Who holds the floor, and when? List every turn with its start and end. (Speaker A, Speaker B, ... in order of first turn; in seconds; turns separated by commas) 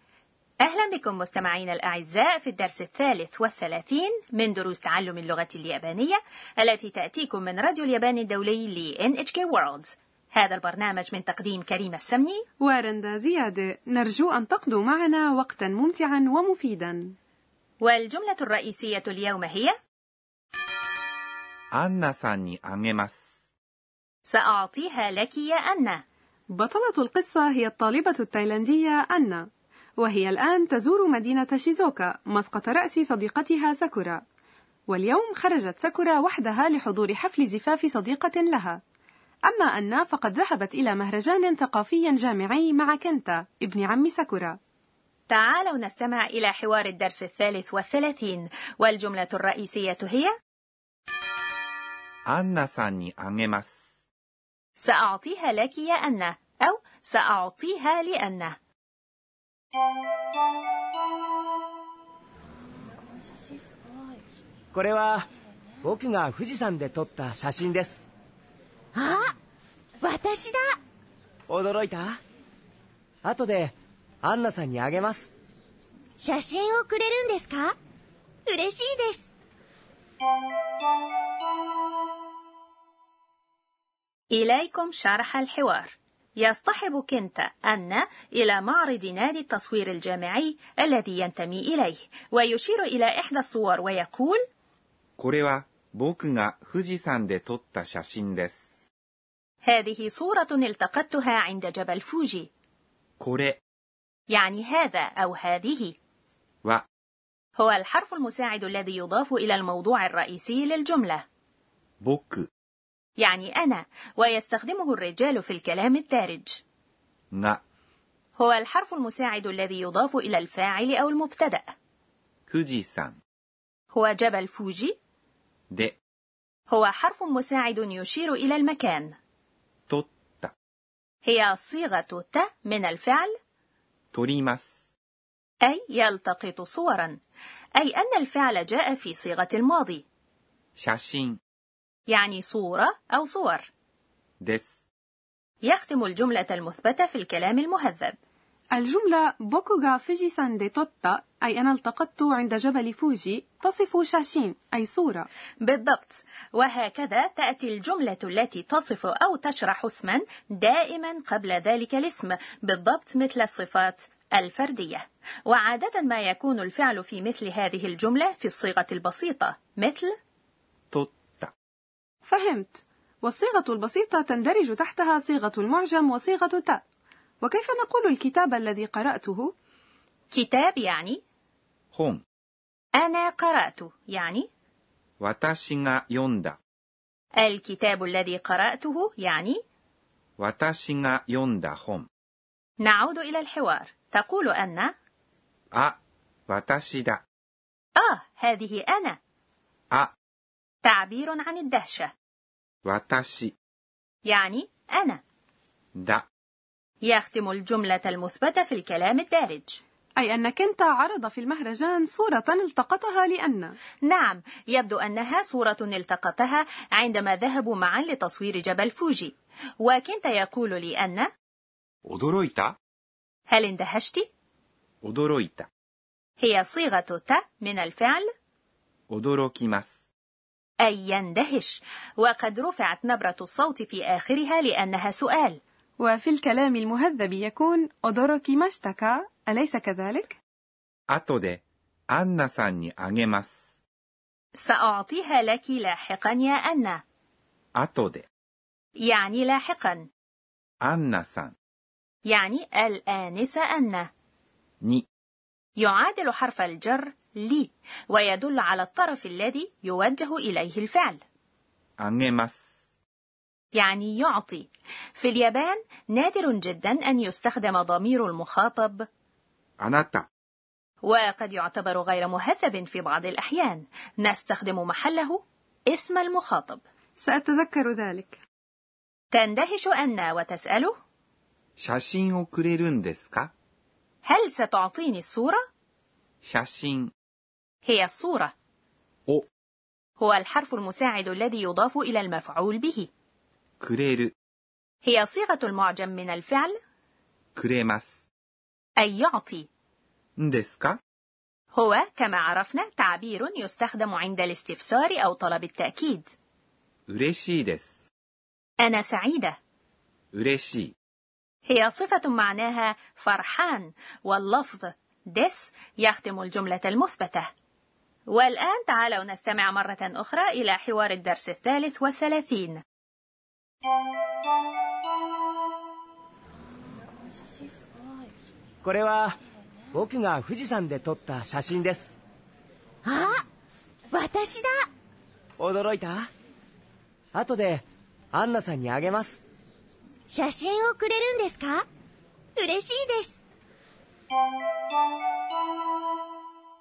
Speaker A: 0.6-12.4, Speaker B: 12.6-17.1, Speaker A: 17.8-19.7, Speaker C: 21.7-23.3, Speaker A: 24.3-26.0, Speaker B: 26.5-29.4, Speaker B: 30.0-34.2, Speaker B: 34.9-38.8, Speaker B: 39.5-44.6, Speaker A: 45.3-50.3, Speaker C: 52.3-53.8, Speaker A: 54.8-58.5, Speaker D: 64.7-65.3, Speaker D: 65.8-68.0, Speaker E: 68.9-69.3, Speaker E: 70.0-70.8, Speaker D: 71.5-72.2, Speaker D: 73.2-75.3, Speaker E: 76.2-77.8, Speaker E: 78.5-79.2, Speaker A: 84.3-94.4, Speaker C: 95.2-98.6, Speaker A: 99.6-102.5, Speaker C: 103.2-103.6, Speaker A: 104.3-106.0, Speaker A: 107.6-111.2, Speaker C: 112.0-112.5, Speaker A: 113.2-116.6, Speaker C: 117.3-117.6, Speaker A: 118.4-121.7, Speaker C: 122.5-123.2, Speaker A: 123.9-124.9, Speaker C: 125.7-126.0, Speaker A: 126.7-129.2, Speaker C: 129.9-130.5, Speaker A: 131.2-133.3, Speaker C: 134.1-134.8, Speaker A: 135.6-137.2, Speaker A: 137.8-140.0, Speaker C: 140.8-141.4, Speaker A: 142.1-143.7, Speaker C: 144.4-144.8, Speaker A: 145.6-148.2, Speaker B: 148.7-155.3, Speaker A: 155.6-170.1, Speaker C: 170.9-171.5, Speaker B: 172.2-176.8, Speaker B: 177.4-179.5, Speaker A: 180.3-181.2, Speaker C: 181.9-182.2, Speaker A: 183.0-184.5, Speaker C: 185.2-186.6, Speaker A: 187.4-189.6, Speaker C: 190.4-192.1, Speaker A: 192.8-194.9, Speaker C: 195.7-197.2, Speaker A: 197.9-199.2, Speaker A: 200.8-202.1, Speaker C: 202.8-203.5, Speaker A: 204.3-205.2, Speaker C: 205.9-206.2, Speaker A: 207.0-209.8, Speaker B: 210.2-213.8, Speaker A: 214.0-221.3, Speaker C: 222.0-222.7, Speaker A: 223.5-224.2, Speaker C: 225.0-225.7, Speaker A: 226.4-228.3, Speaker C: 229.1-230.0, Speaker A: 230.8-235.6, Speaker B: 236.0-240.4, Speaker C: 241.1-241.6, Speaker C: 242.1-243.6, Speaker A: 244.6-247.0, Speaker C: 247.8-248.2, Speaker A: 249.0-250.1, Speaker C: 250.8-251.5, Speaker A: 252.3-254.1, Speaker A: 255.8-261.2, Speaker C: 262.0-262.7, Speaker A: 263.7-269.0, Speaker C: 269.8-270.3, Speaker A: 271.0-276.8, Speaker B: 277.2-278.4, Speaker A: 279.3-280.9, Speaker C: 281.8-283.5, Speaker A: 284.2-285.6, Speaker C: 286.4-287.1, Speaker A: 287.9-288.5, Speaker A: 290.2-293.1, Speaker C: 293.8-294.3, Speaker A: 295.0-296.8, Speaker C: 297.5-298.2, Speaker A: 299.0-299.7, Speaker C: 300.4-301.0, Speaker A: 301.7-306.3, Speaker C: 307.1-307.9, Speaker A: 308.8-309.6, Speaker C: 310.3-310.9, Speaker A: 311.6-317.5, Speaker A: 318.3-322.8, Speaker D: 328.8-329.4, Speaker D: 329.9-332.1, Speaker E: 333.0-333.4, Speaker E: 334.1-334.9, Speaker D: 335.6-336.3, Speaker D: 337.3-339.4, Speaker E: 340.3-341.9, Speaker E: 342.6-343.3